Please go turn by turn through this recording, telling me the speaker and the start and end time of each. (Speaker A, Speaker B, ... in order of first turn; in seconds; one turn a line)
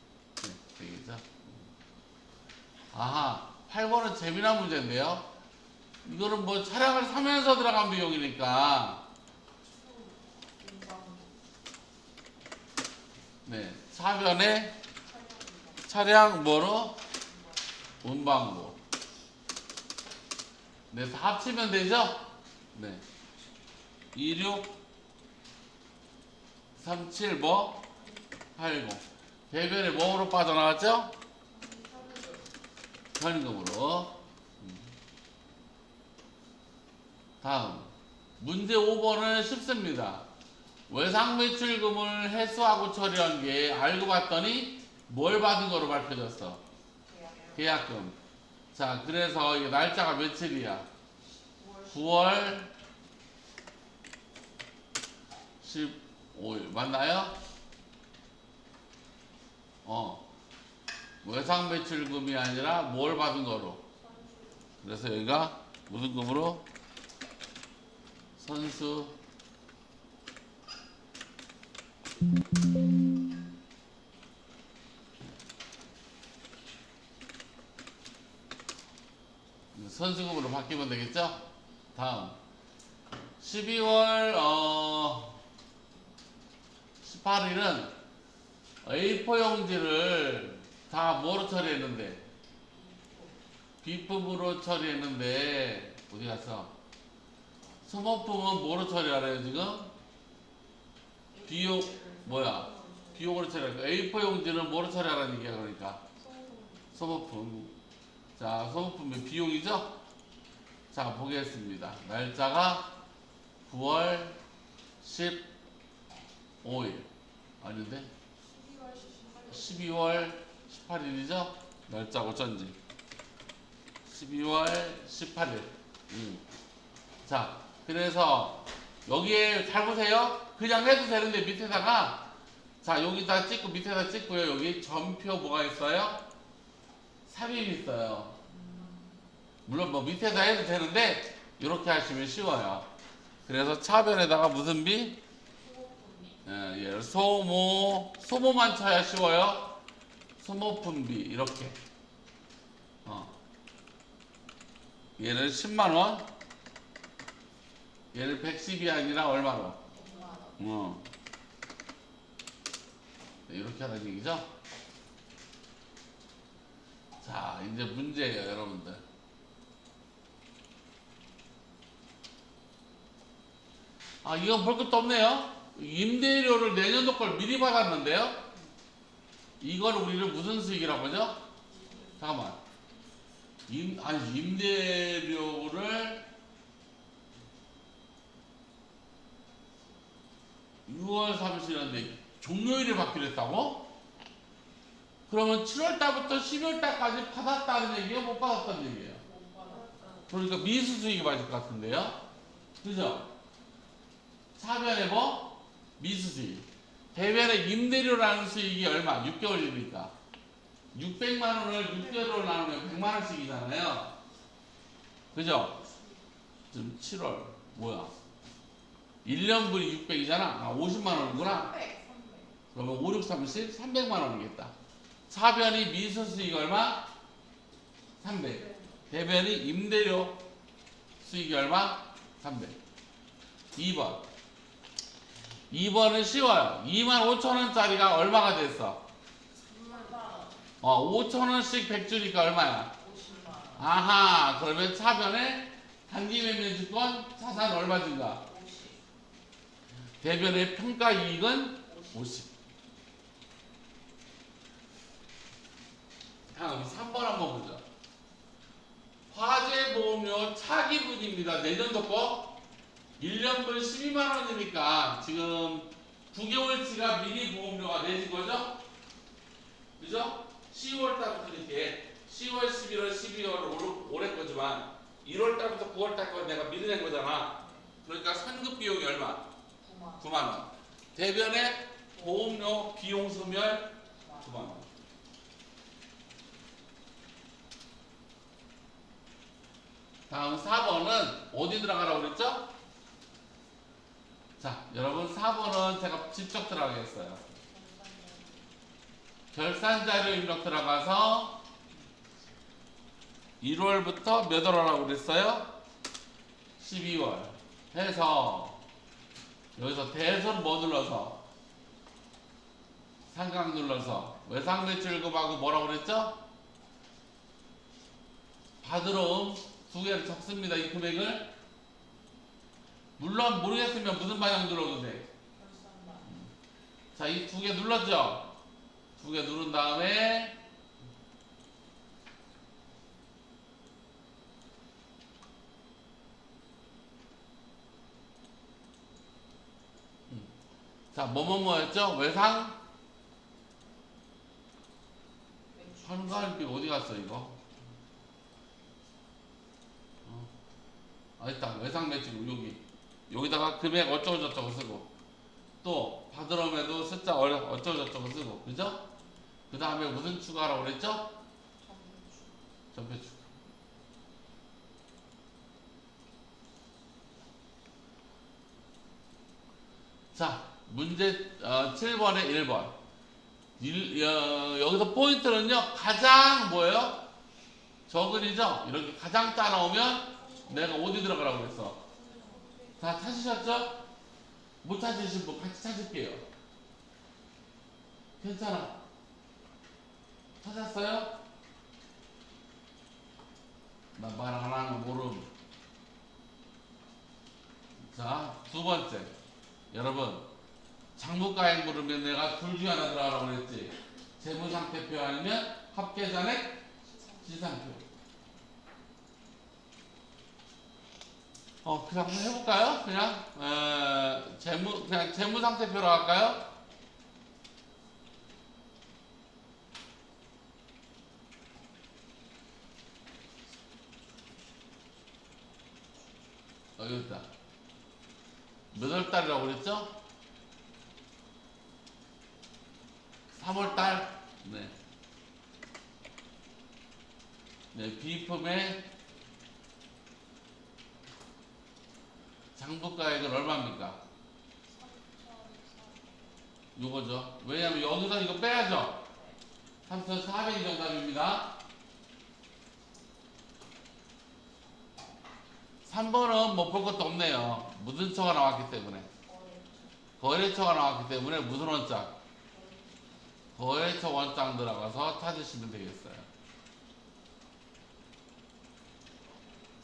Speaker A: 0.4-1.6
Speaker A: 2.9-5.3
Speaker A: 6.0-9.0
Speaker B: 9.6-11.4
Speaker A: 13.4-14.8
Speaker B: 15.0-16.3
Speaker A: 15.9-17.0
Speaker B: 17.1-17.8
Speaker A: 18.0-18.8
Speaker A: 20.9-23.0
Speaker A: 24.1-24.7
Speaker A: 26.8-27.9
Speaker A: 28.6-31.1
Speaker B: 31.5-32.5
Speaker A: 33.1-34.9
Speaker A: 37.4-40.2
Speaker A: 40.9-46.6
Speaker B: 47.0-47.9
Speaker A: 47.5-48.1
Speaker A: 48.7-50.9
Speaker B: 51.6-52.5
Speaker A: 51.9-52.7
Speaker A: 55.6-57.4
Speaker A: 59.8-60.2
Speaker A: 61.2-63.8
Speaker B: 63.9-64.7
Speaker A: 64.8-66.7
Speaker A: 68.4-69.1
Speaker A: 79.7-81.4
Speaker A: 81.9-82.3
Speaker A: 83.4-85.4
Speaker A: 87.0-87.9
Speaker A: 88.8-92.2
Speaker B: 92.7-93.5
Speaker A: 93.8-96.7
Speaker A: 97.8-99.9
Speaker B: 101.3-103.5
Speaker A: 101.5-106.0
Speaker B: 106.2-106.9
Speaker A: 106.9-107.7
Speaker A: 108.4-109.9
Speaker A: 110.9-112.9
Speaker A: 113.7-114.4
Speaker A: 115.0-115.5
Speaker A: 116.6-117.1
Speaker A: 117.6-118.1
Speaker B: 118.4-119.9
Speaker A: 119.5-122.8
Speaker A: 124.0-126.4
Speaker A: 127.2-132.3
Speaker A: 132.8-136.2
Speaker A: 137.3-138.4
Speaker B: 138.4-139.1
Speaker A: 139.7-142.9
Speaker A: 143.5-145.2
Speaker B: 145.6-146.4
Speaker A: 146.4-149.8
Speaker A: 150.4-151.8
Speaker A: 153.0-153.3
Speaker A: 155.2-156.3
Speaker A: 158.1-159.8
Speaker B: 159.9-160.6
Speaker A: 160.6-161.0
Speaker A: 163.5-164.4
Speaker A: 167.2-169.0
Speaker A: 174.2-178.4
Speaker A: 179.6-181.4
Speaker B: 181.7-182.2
Speaker A: 182.2-182.6
Speaker A: 183.7-186.3
Speaker A: 190.9-193.9
Speaker A: 195.3-199.2
Speaker B: 199.2-200.3
Speaker A: 200.3-202.2
Speaker B: 202.2-202.5
Speaker A: 202.8-203.3
Speaker A: 204.6-210.1
Speaker A: 210.9-214.1
Speaker A: 215.3-215.8
Speaker B: 215.7-216.2
Speaker A: 216.7-218.1
Speaker A: 219.2-221.7
Speaker B: 221.0-222.6
Speaker A: 222.7-224.7
Speaker A: 225.3-227.1
Speaker A: 228.2-230.4
Speaker B: 228.5-229.1
Speaker A: 231.2-232.8
Speaker A: 233.8-234.2
Speaker A: 235.7-239.0
Speaker B: 239.6-240.6
Speaker A: 240.8-242.9
Speaker B: 242.9-243.9
Speaker A: 243.8-248.4
Speaker B: 248.3-249.0
Speaker A: 250.2-252.5
Speaker B: 251.9-252.3
Speaker A: 256.5-257.8
Speaker A: 259.3-262.6
Speaker A: 263.2-268.8
Speaker A: 270.0-279.5
Speaker B: 277.6-277.9
Speaker B: 279.8-280.4
Speaker A: 280.2-284.9
Speaker B: 282.1-282.6
Speaker B: 284.2-284.7
Speaker A: 290.3-292.7
Speaker A: 294.6-297.4
Speaker B: 297.5-298.7
Speaker A: 299.5-301.6
Speaker A: 303.6-305.7
Speaker A: 306.8-308.8
Speaker A: 309.8-311.4
Speaker A: 313.3-316.4
Speaker A: 318.8-321.5
Speaker A: 323.2-325.2
Speaker B: 325.5-326.3
Speaker A: 327.1-328.5
Speaker A: 329.2-330.6
Speaker A: 341.1-342.8
Speaker B: 345.7-346.7
Speaker A: 346.0-347.6
Speaker A: 351.4-355.1
Speaker A: 355.8-359.0
Speaker A: 359.7-361.3
Speaker B: 361.8-362.6
Speaker A: 362.9-363.4
Speaker A: 370.3-372.9
Speaker A: 373.8-377.2
Speaker A: 378.1-382.0
Speaker B: 380.3-383.5
Speaker A: 383.0-384.0
Speaker A: 384.8-386.4
Speaker A: 388.4-389.0
Speaker A: 390.6-391.4
Speaker A: 394.1-395.5
Speaker A: 398.1-399.3
Speaker A: 399.9-400.5
Speaker A: 401.2-406.8
Speaker B: 407.1-407.5
Speaker A: 407.4-408.0
Speaker A: 411.8-416.7
Speaker A: 427.0-427.5
Speaker A: 428.9-430.1
Speaker A: 433.5-434.9
Speaker B: 433.7-434.2
Speaker A: 437.9-439.1
Speaker A: 442.8-444.2
Speaker B: 444.9-446.6
Speaker A: 446.9-449.2
Speaker B: 449.1-449.6
Speaker A: 450.1-451.8
Speaker A: 456.1-459.3
Speaker B: 459.4-460.1
Speaker A: 460.4-462.4
Speaker B: 462.7-463.4
Speaker A: 463.8-466.4